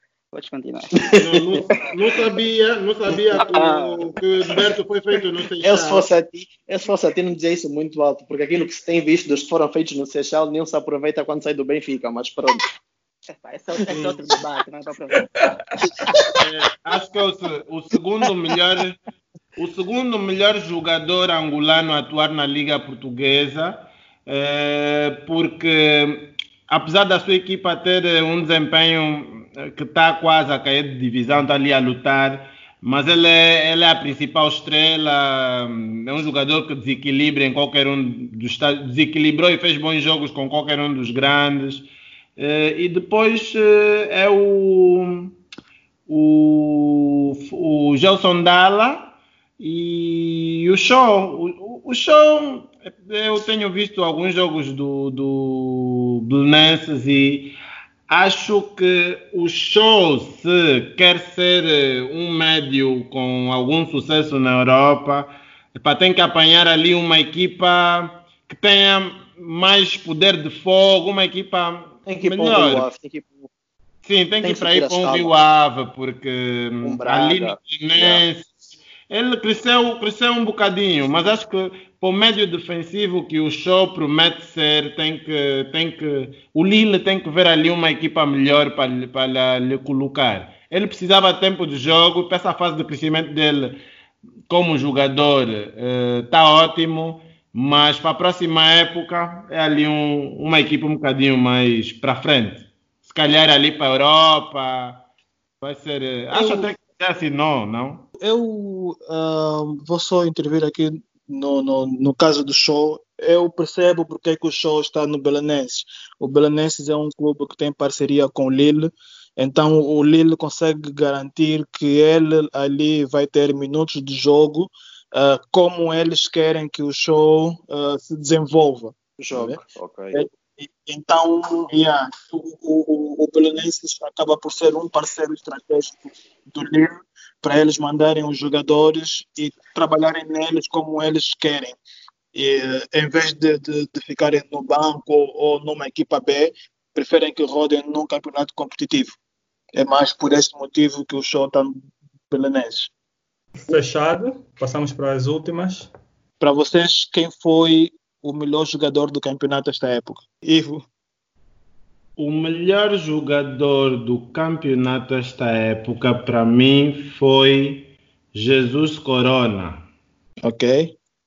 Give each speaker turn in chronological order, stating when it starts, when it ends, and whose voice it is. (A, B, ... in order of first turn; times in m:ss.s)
0:00.3-0:01.0 A
0:01.0-0:01.6 B
0:01.2-0:06.1 C
0:03.3-0:04.1 A
0:05.6-0:12.6 B
0:13.4-0:15.2 A
0:16.4-0:19.0 C
0:19.6-0:45.3 C
0:46.1-0:57.5 C
0:58.1-1:12.9 C
1:12.1-1:13.5 B
1:14.0-1:33.8 C
1:14.4-1:15.3 B
1:16.8-1:18.2 B
1:34.5-1:45.0 C
1:45.6-1:48.1 C
1:46.3-1:46.7 D
1:48.2-2:09.6 D
2:09.2-2:10.2 B
2:10.1-2:21.8 D
2:22.3-2:29.1 D
2:29.7-2:32.9 D
2:33.6-2:35.9 E
2:36.4-2:40.8 D
2:42.2-2:49.8 C
2:50.4-2:51.0 D